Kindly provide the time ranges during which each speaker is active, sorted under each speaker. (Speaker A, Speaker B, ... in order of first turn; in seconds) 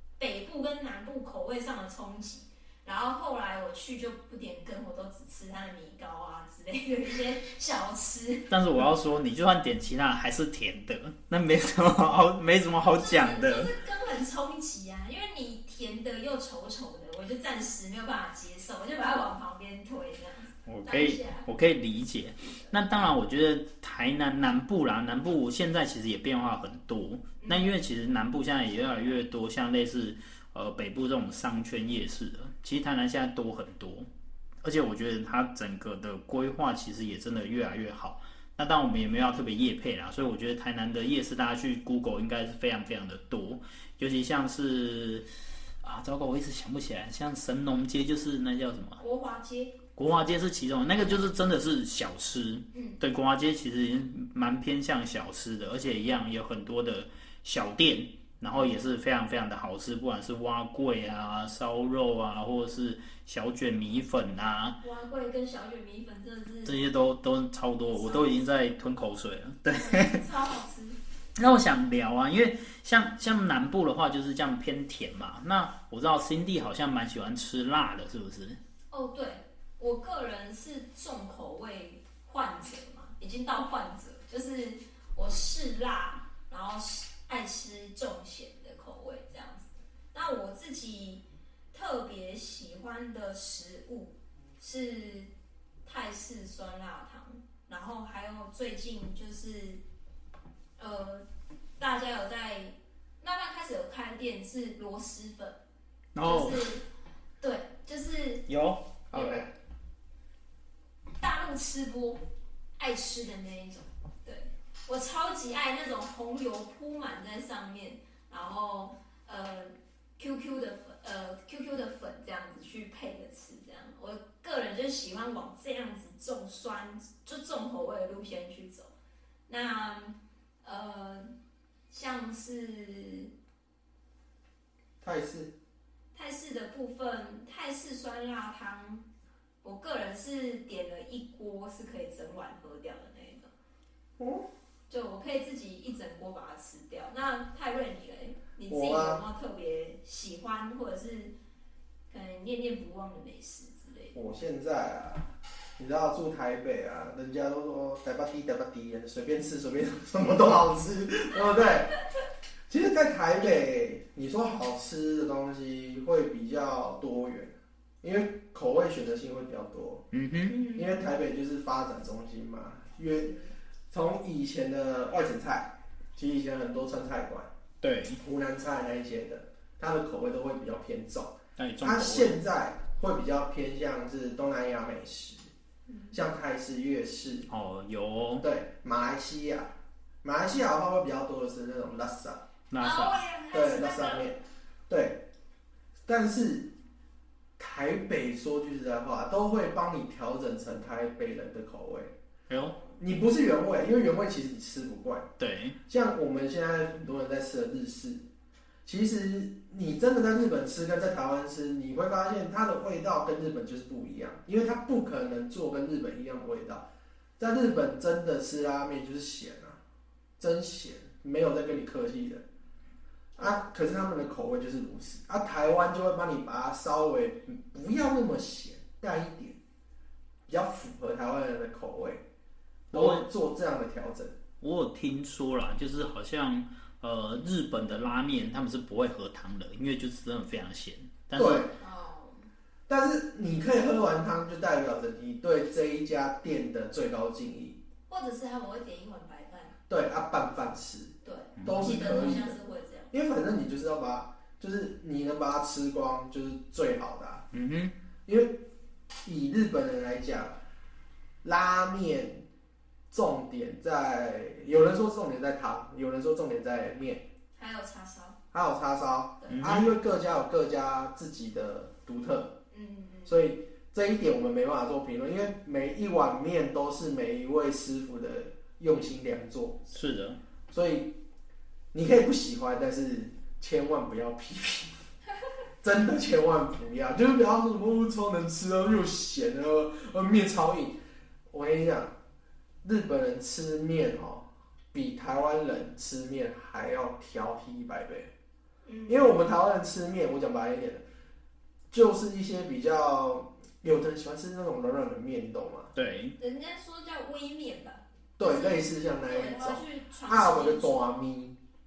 Speaker A: 0.2-8.5, 12.9-21.5, 22.4-22.7, 27.4-27.7, 49.0-49.8, 52.7-53.0, 64.8-66.9, 67.9-68.4, 69.7-71.0, 78.9-95.3, 95.8-99.8, 100.8-101.2, 101.8-105.6, 106.2-106.8, 107.4-108.5, 111.2-112.2, 112.8-128.9, 129.5-131.3, 131.9-133.3, 136.1-139.0, 139.6-143.5, 144.9-151.3, 152.1-154.2, 170.5-171.1, 173.2-173.5, 185.9-186.2, 192.8-194.3, 241.8-242.5, 248.1-249.8, 251.2-253.1, 267.6-268.4, 272.7-273.5, 298.9-299.4, 306.4-311.1
Speaker B: 8.5-13.7, 20.7-34.1, 34.6-45.3, 45.8-49.0, 50.0-64.8, 66.7-70.2, 71.4-78.6, 106.2-106.7, 108.5-109.4, 170.1-170.6, 177.8-178.2, 181.6-182.4, 187.5-188.5, 192.7-193.2, 202.5-202.8, 205.4-205.8, 232.9-233.3, 234.6-241.7, 251.6-252.1, 257.5-257.9, 269.5-269.9, 279.9-280.4, 305.9-306.4
Speaker C: 109.1-109.5, 135.0-135.5, 144.2-144.5, 148.7-149.2, 154.1-161.9, 162.7-170.1, 170.7-173.3, 173.9-177.5, 178.2-185.5, 186.1-187.5, 188.4-192.4, 193.5-195.3, 196.1-196.7, 197.6-202.1, 203.0-205.3, 205.9-208.2, 208.9-216.9, 217.4-219.8, 220.4-222.4, 223.4-229.6, 230.5-232.2, 232.9-234.4, 241.3-241.8, 242.9-247.8, 249.9-252.6, 253.1-257.5, 258.3-258.6, 259.2-260.6, 261.4-262.4, 263.1-267.3, 268.5-272.6, 273.3-279.8, 280.7-281.2, 281.9-284.9, 285.8-291.0, 291.5-292.1, 292.8-298.3, 299.1-301.0, 301.9-305.9, 308.4-311.6